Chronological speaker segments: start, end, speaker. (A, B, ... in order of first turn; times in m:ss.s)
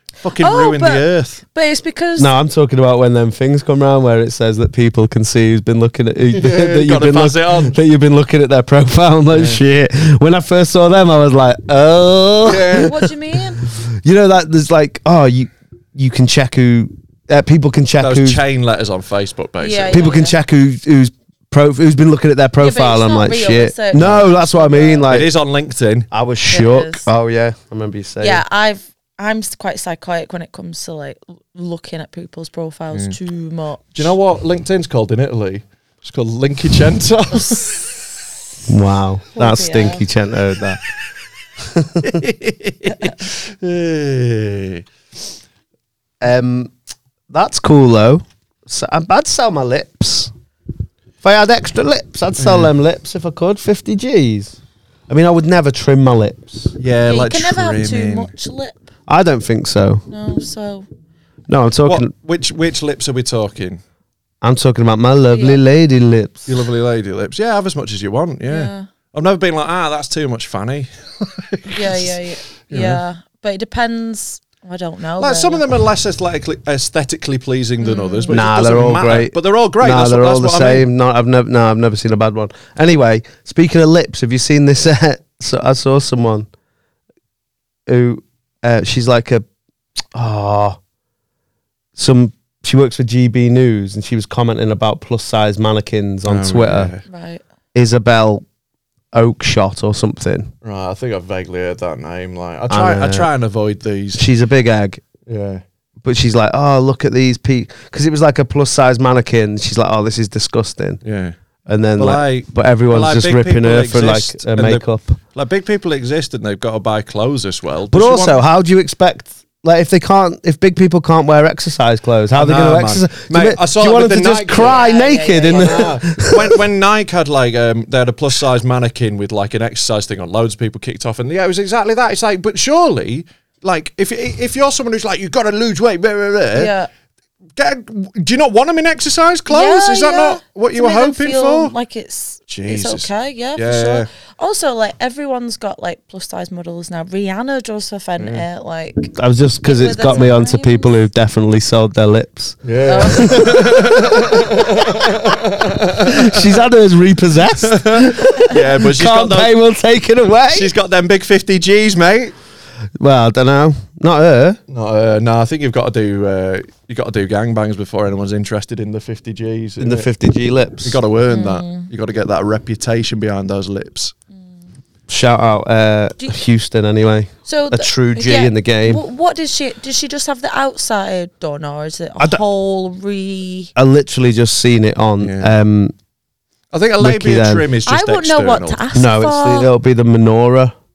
0:00.2-0:01.4 A
0:00.4-0:02.3 B
0:02.2-0:12.9 C
0:06.3-0:07.8 A
0:09.3-0:09.6 A
0:12.4-0:12.9 A
0:12.7-0:13.6 B
0:13.6-0:18.4 C
0:18.0-0:20.1 A
0:19.6-0:20.4 B
0:19.9-0:25.3 C
0:22.6-0:25.1 B
0:24.0-0:24.3 A
0:25.1-0:26.1 A
0:26.1-0:28.4 C
0:26.5-0:27.1 B
0:28.2-0:34.1 B
0:34.0-0:38.0 A
0:37.4-0:37.7 B
0:38.7-0:40.8 C
0:39.4-0:40.0 B
0:41.6-0:42.2 C
0:42.0-0:44.8 A
0:42.9-0:43.1 B
0:46.2-0:46.7 C
0:47.3-0:50.3 C
0:51.2-0:54.6 C
0:52.4-0:52.7 A
0:55.1-0:56.7 C
0:56.8-0:58.3 A
0:57.1-0:58.9 B
0:59.1-1:00.0 C
1:00.1-1:00.9 B
1:01.5-1:02.1 C
1:01.8-1:03.8 A
1:04.4-1:06.5 C
1:05.3-1:05.6 B
1:06.5-1:13.0 A
1:08.5-1:08.9 B
1:11.7-1:15.6 B
1:15.2-1:20.9 A
1:17.8-1:18.3 B
1:18.3-1:26.5 C
1:27.9-1:29.4 C
1:30.1-1:30.8 C
1:32.0-1:36.9 C
1:36.3-1:37.0 A
1:37.1-1:37.4 B
1:37.7-1:38.4 C
1:39.1-1:40.5 C
1:40.6-1:44.2 A
1:42.7-1:43.3 C
1:44.2-1:45.0 C
1:45.3-1:45.6 A
1:46.0-1:51.0 C
1:51.0-1:51.4 A
1:51.7-1:55.2 C
1:52.0-1:58.4 A
1:57.9-2:06.6 C
2:02.4-2:04.9 A
2:04.6-2:05.9 B
2:05.5-2:16.7 A
2:16.5-2:16.9 B
2:17.6-2:21.7 A
2:19.5-2:29.1 B
2:22.5-2:24.1 A
2:28.2-2:28.4 A
2:29.2-2:34.4 C
2:29.6-2:31.0 B
2:32.6-2:36.6 A
2:32.9-2:33.5 B
2:36.0-2:40.7 C
2:37.6-2:39.6 A
2:40.5-2:42.3 A
2:43.0-2:44.6 C
2:44.7-2:50.1 A
2:49.8-2:51.0 C
2:50.8-2:54.2 A
2:51.3-2:51.9 B
2:55.1-2:59.0 C
2:57.5-3:03.7 B
3:03.8-3:05.9 C
3:05.2-3:05.5 A
3:06.7-3:08.8 A
3:07.0-3:07.6 C
3:07.9-3:09.7 B
3:09.0-3:10.7 C